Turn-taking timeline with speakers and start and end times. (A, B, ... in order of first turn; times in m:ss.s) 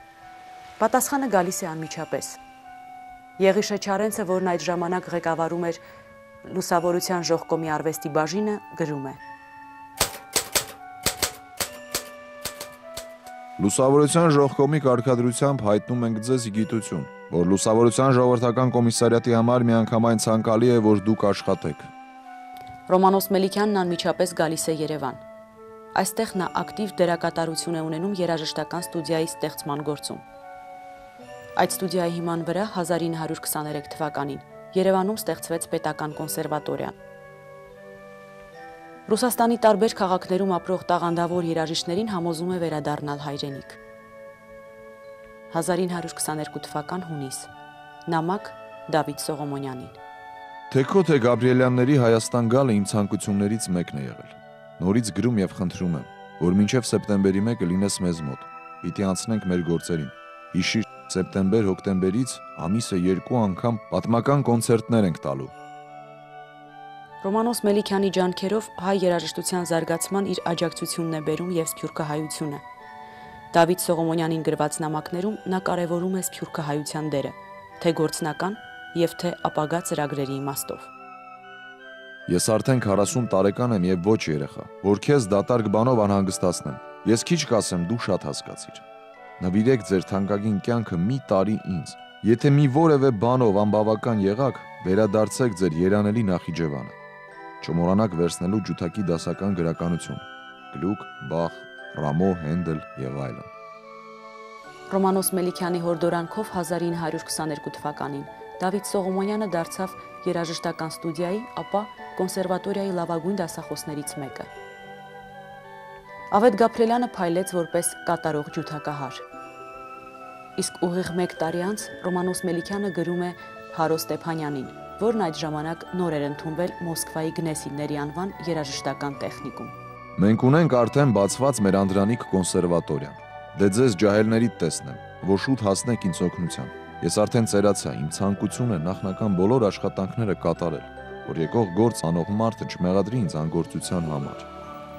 0:00.8-0:02.4 A
0:03.4-0:05.8 A
0:06.4-0:09.2 A
0:13.6-0:21.9 B
0:22.9-0:25.2 A
0:25.9-0:30.2 A
0:31.6-0:36.9 A
0:39.1-0:43.8 A
0:45.5-0:47.5 A
0:48.1-0:50.0 A
0:50.7-1:05.5 B
1:07.2-1:12.6 A
1:13.5-1:20.9 A
1:22.3-1:28.8 B
1:29.4-1:37.0 B
1:37.6-1:43.5 B
1:44.9-1:54.5 A
1:56.3-1:59.2 A
2:00.6-2:09.7 A
2:10.2-2:24.5 B